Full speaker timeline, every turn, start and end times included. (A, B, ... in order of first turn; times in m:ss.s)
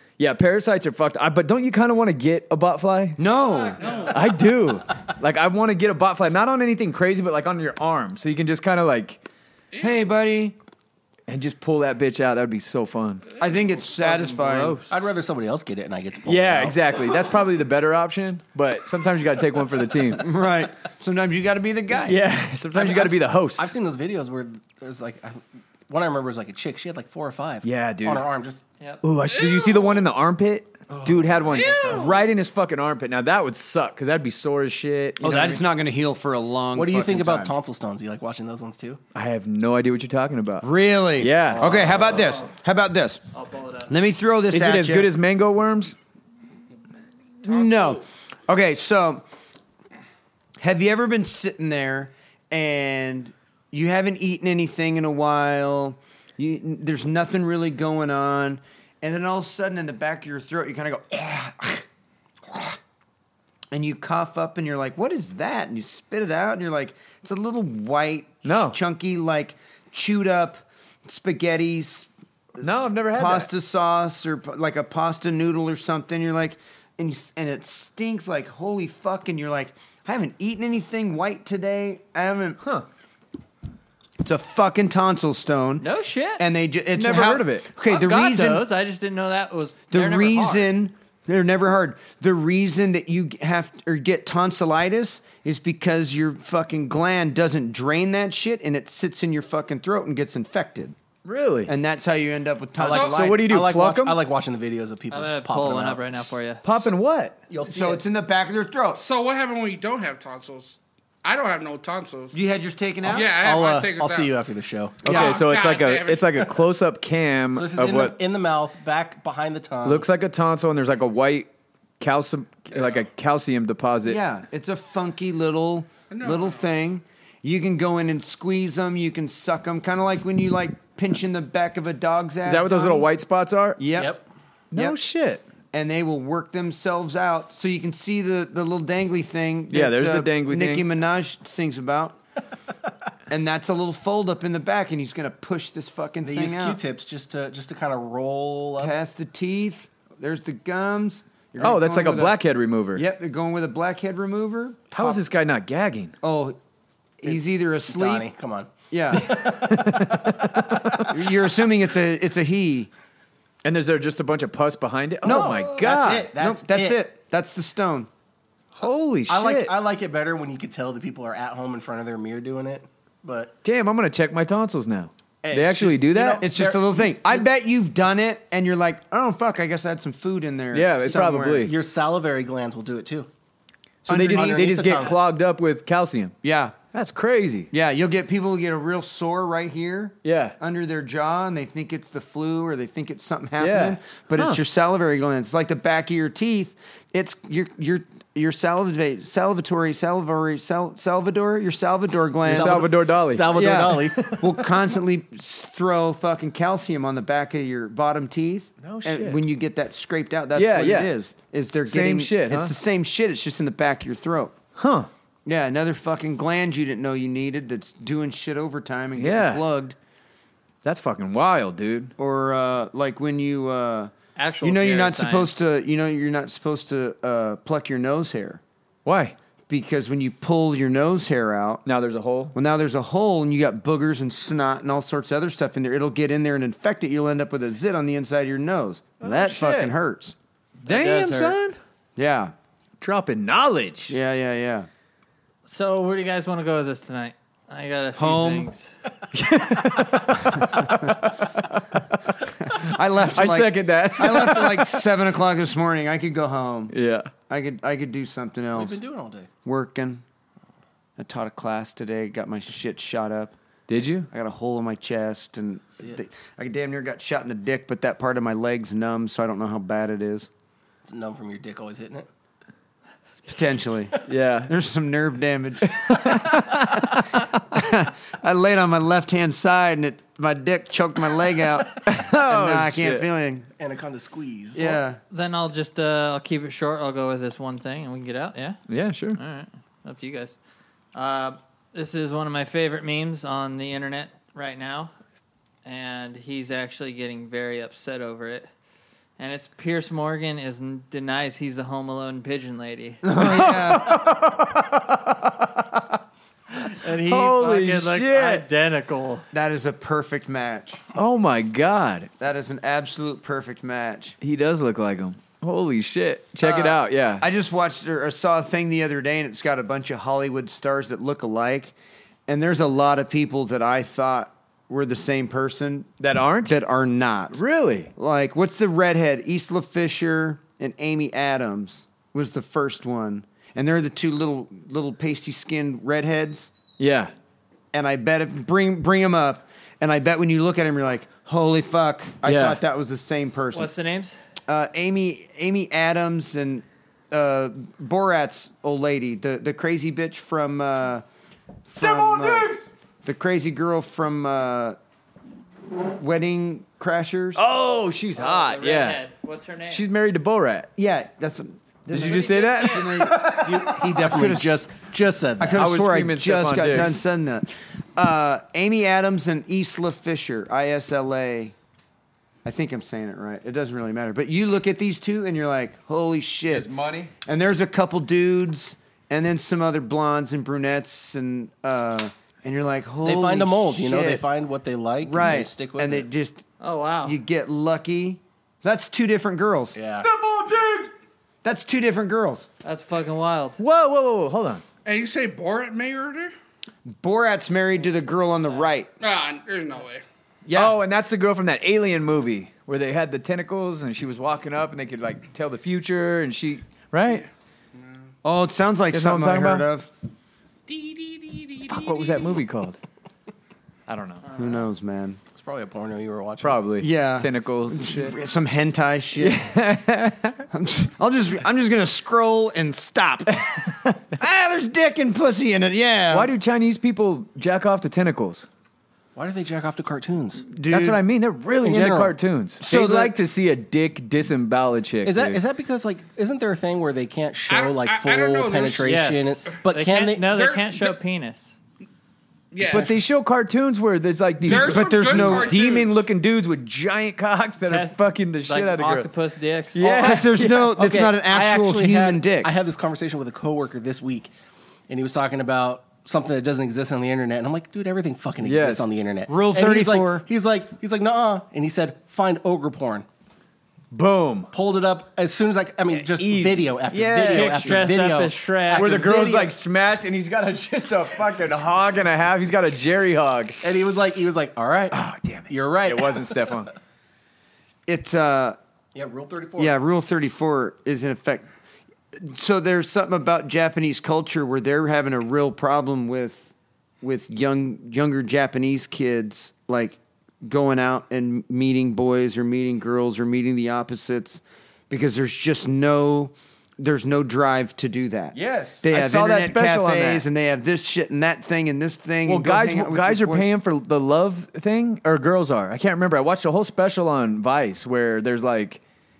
0:00.2-0:03.2 A
0:03.2-0:03.8 B
0:03.4-0:04.2 C
0:03.8-0:04.2 D
0:04.1-0:09.2 A
0:09.7-0:10.1 D
0:09.8-0:10.6 B
0:11.3-0:13.2 A
0:13.3-0:13.9 D
0:13.4-0:14.8 B
0:14.0-0:14.9 C
0:14.9-0:16.8 E
0:16.3-0:20.2 A
0:20.1-0:22.2 B
0:22.0-0:23.7 A
0:22.7-0:28.6 E
0:27.6-0:28.3 A
0:29.0-0:35.7 A
0:29.3-0:30.0 D
0:30.9-0:32.0 E
0:31.5-0:32.2 D
0:35.2-0:37.5 B
0:36.7-0:39.0 E
0:39.1-0:42.0 A
0:40.6-0:43.2 B
0:41.6-0:42.5 C
0:43.3-0:43.9 C
0:43.9-0:45.1 B
0:44.5-0:46.0 A
0:47.4-0:49.2 B
0:50.6-1:01.8 B
1:02.5-1:02.8 B
1:03.7-1:22.6 B
1:08.4-1:08.8 A
1:12.6-1:13.5 A
1:22.6-1:22.8 A
1:24.2-1:25.8 B
1:25.8-1:26.4 C
1:26.4-1:28.6 B
1:26.9-1:27.7 A
1:27.8-1:30.7 C
1:29.9-1:40.9 B
1:41.2-1:41.7 A
1:41.7-1:43.6 B
1:42.8-1:43.3 D
1:42.8-1:44.2 A
1:42.9-1:46.8 E
1:45.1-1:46.6 C
1:46.6-1:47.4 A
1:47.5-1:48.0 E
1:47.6-1:49.0 B
1:48.9-1:52.4 D
1:52.3-1:53.3 B
1:53.0-1:54.3 D
1:53.0-1:55.1 E
1:55.0-1:55.4 B
1:55.0-1:58.2 A
1:55.0-1:56.4 D
1:57.5-2:00.0 E
1:59.8-2:01.5 A
2:02.0-2:04.2 A
2:04.0-2:13.1 B
2:06.1-2:06.7 D
2:12.4-2:13.8 A
2:13.8-2:14.1 B
2:14.0-2:14.2 E
2:14.7-2:15.4 A
2:15.7-2:22.2 B
2:19.7-2:20.9 A
2:23.3-2:26.8 B
2:26.2-2:29.0 E
2:28.8-2:32.4 B
2:31.6-2:33.0 A
2:32.9-2:35.2 B
2:34.9-2:36.1 A
2:36.2-2:36.6 B
2:37.2-2:38.2 B
2:37.2-2:38.7 E
2:38.9-2:39.4 B
2:39.2-2:41.3 A
2:41.0-2:42.9 B
2:43.6-2:46.3 A
2:45.2-2:45.7 B
2:45.2-2:47.0 E
2:46.3-2:48.1 B
2:48.8-2:49.7 A
2:49.3-2:53.5 E
2:53.6-2:56.5 A
2:55.5-2:57.4 E
2:55.5-3:01.7 B
3:00.7-3:01.7 A
3:01.6-3:03.3 E
3:04.0-3:06.4 A
3:04.1-3:05.1 B
3:04.3-3:05.2 E
3:06.4-3:06.8 B
3:06.9-3:07.7 A
3:07.7-3:22.9 B
3:10.2-3:10.6 A
3:13.6-3:14.6 A
3:22.5-3:24.4 E
3:22.5-3:24.7 A
3:23.5-3:34.6 B
3:28.8-3:29.4 A
3:30.5-3:32.8 A
3:34.8-3:35.1 A
3:35.4-3:40.0 B
3:39.1-3:39.6 A
3:40.8-3:42.1 A
3:42.2-3:48.6 B
3:44.4-3:45.5 C
3:49.0-3:49.4 A
3:49.7-3:51.8 B
3:51.8-3:52.5 A
3:52.5-4:00.3 B
3:59.2-3:59.9 A
4:00.8-4:01.6 C
4:00.8-4:01.8 A
4:02.2-4:02.5 B
4:03.0-4:04.2 A
4:04.1-4:04.9 B
4:05.6-4:08.9 C
4:08.2-4:08.7 B
4:09.3-4:11.7 A
4:10.3-4:11.2 B
4:12.6-4:16.9 B
4:12.7-4:15.1 A
4:16.9-4:17.3 A
4:17.5-4:19.0 B
4:18.7-4:19.5 E
4:19.6-4:20.2 B
4:21.2-4:23.5 B
4:23.9-4:24.3 A
4:24.3-4:30.5 B
4:25.9-4:26.2 E
4:31.0-4:32.3 E
4:33.5-4:43.7 B
4:34.2-4:34.7 A
4:35.9-4:37.4 A
4:42.0-4:43.3 A
4:43.8-4:45.0 E
4:44.7-4:45.2 B
4:45.3-4:48.8 C
4:48.9-4:49.4 A
4:49.4-4:50.6 C
4:51.1-4:55.1 C
4:55.8-4:58.7 C
4:59.4-5:03.2 C
5:03.2-5:04.4 B
5:03.3-5:06.0 A
5:06.8-5:09.5 C
5:07.0-5:08.6 A
5:09.5-5:11.0 B
5:11.1-5:12.3 A
5:12.4-5:14.4 B
5:14.4-5:17.4 A
5:16.6-5:21.9 B
5:22.5-5:27.6 B
5:26.2-5:26.8 A
5:27.5-5:28.1 A
5:28.2-5:36.7 B
5:37.0-5:37.3 A
5:37.9-5:43.9 B
5:42.4-5:42.8 A
5:43.7-5:44.4 C
5:44.7-5:51.2 B
5:51.9-5:52.7 B
5:52.0-5:52.9 A
5:53.2-5:55.0 B
5:56.1-5:57.6 B
5:57.5-5:59.2 A
5:58.4-6:00.1 C
5:59.9-6:00.9 A
6:01.0-6:04.9 B
6:02.1-6:04.0 A
6:02.2-6:03.2 C
6:03.4-6:05.8 E
6:05.6-6:11.7 B
6:05.7-6:07.2 A
6:12.6-6:16.9 B
6:16.7-6:17.3 A
6:17.4-6:24.4 B
6:23.2-6:26.3 E
6:25.2-6:26.6 B
6:26.8-6:27.4 C
6:27.2-6:30.0 B
6:29.9-6:30.3 E
6:30.2-6:31.1 A
6:31.6-6:32.7 B
6:32.8-6:33.8 C
6:33.8-6:34.8 A
6:35.0-6:36.5 D
6:37.1-6:39.1 B
6:39.2-6:40.2 D
6:40.6-6:41.0 B
6:40.7-6:47.4 A
6:48.4-6:50.1 B
6:49.1-6:49.9 A
6:50.9-6:52.6 D
6:51.9-6:53.0 A
6:54.1-6:54.4 A
6:54.5-6:55.4 B
6:55.5-6:56.8 E
6:56.6-6:58.4 A
6:57.0-6:59.6 B
6:59.4-7:00.7 A
7:00.7-7:06.5 B
7:06.3-7:08.7 A
7:09.4-7:10.6 E
7:10.7-7:11.2 B
7:10.8-7:15.6 A
7:11.8-7:12.4 E
7:12.8-7:13.4 B
7:15.2-7:20.5 E
7:17.7-7:19.1 D
7:19.0-7:21.7 C
7:20.5-7:21.1 D
7:22.7-7:23.2 D
7:22.8-7:29.3 A
7:24.6-7:26.2 D
7:24.6-7:25.8 B
7:27.8-7:30.1 C
7:29.9-7:31.0 A
7:30.0-7:32.7 B
7:31.0-7:34.5 E
7:35.1-7:43.3 E
7:38.6-7:39.1 A
7:39.5-7:40.4 B
7:44.1-7:44.7 A
7:44.7-7:49.7 E
7:46.1-7:48.1 A
7:47.4-7:49.4 C
7:48.9-7:53.8 A
7:53.8-7:55.2 E
7:55.1-7:56.9 A
7:55.7-7:56.6 E
7:58.1-7:58.8 B
7:59.1-8:00.0 E
7:59.8-8:01.7 B
8:02.3-8:06.7 B
8:07.2-8:23.7 B
8:18.5-8:20.5 A
8:22.4-8:29.0 A